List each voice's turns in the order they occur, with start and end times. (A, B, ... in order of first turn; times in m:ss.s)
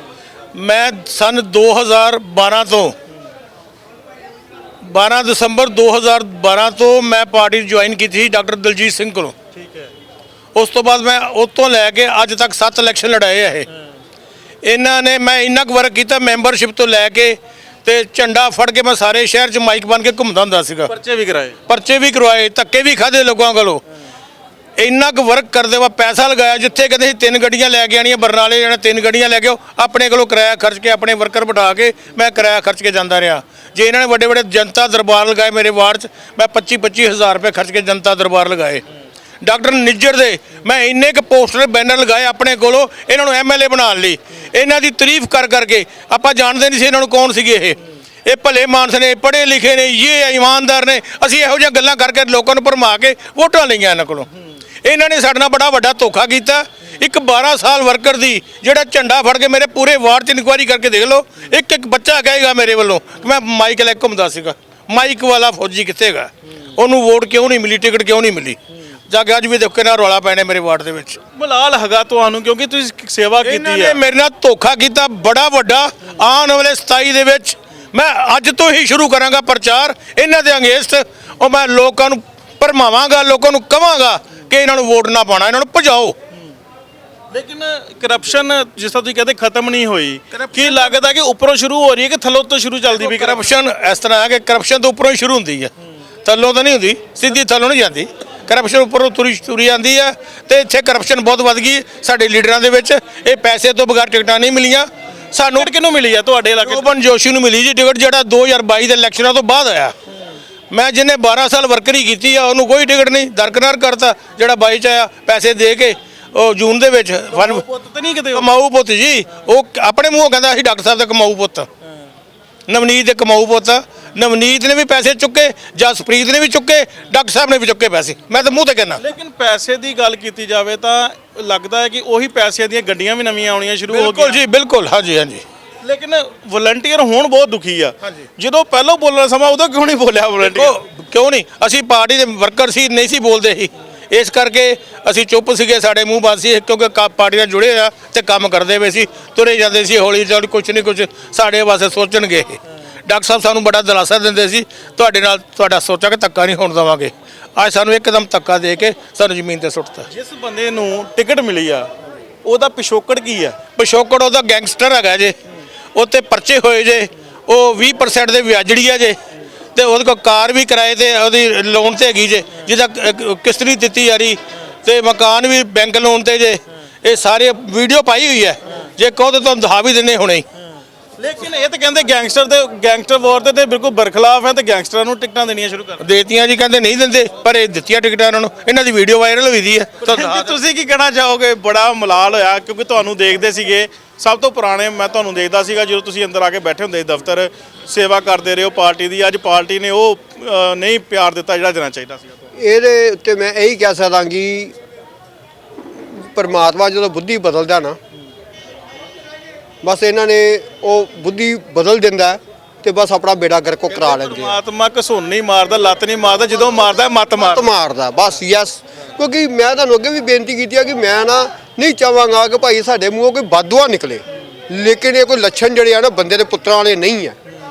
0:00.5-0:03.0 A
0:04.8-0:09.4 A
0:09.6-0:09.9 B
0:10.6-0:13.7 A
0:14.6-0:20.9 A
0:20.9-0:21.6 B
0:21.7-0:23.8 A
0:24.8-0:38.8 A
0:39.4-0:54.3 A
0:54.8-1:11.2 A
1:11.3-1:14.0 B
1:13.4-1:26.2 A
1:27.3-1:33.4 B
1:30.3-1:31.0 A
1:32.9-1:35.7 A
1:36.2-1:45.7 A
1:45.5-1:46.8 B
1:46.6-1:50.0 A
1:50.7-1:57.7 A
1:57.3-1:58.5 B
1:58.3-2:01.7 A
2:02.7-2:09.0 A
2:09.0-2:14.4 B
2:13.9-2:15.4 A
2:15.8-2:20.8 B
2:20.4-2:40.1 A
2:40.1-2:41.9 B
2:42.4-2:43.6 B
2:43.8-2:45.4 A
2:45.9-2:49.2 A
2:49.8-3:00.5 A
3:01.2-3:06.0 B
3:06.0-3:10.6 A
3:10.0-3:22.3 B
3:22.6-3:24.8 C
3:26.1-3:28.0 C
3:29.8-3:34.6 C
3:33.9-3:37.7 B
3:37.4-3:47.4 C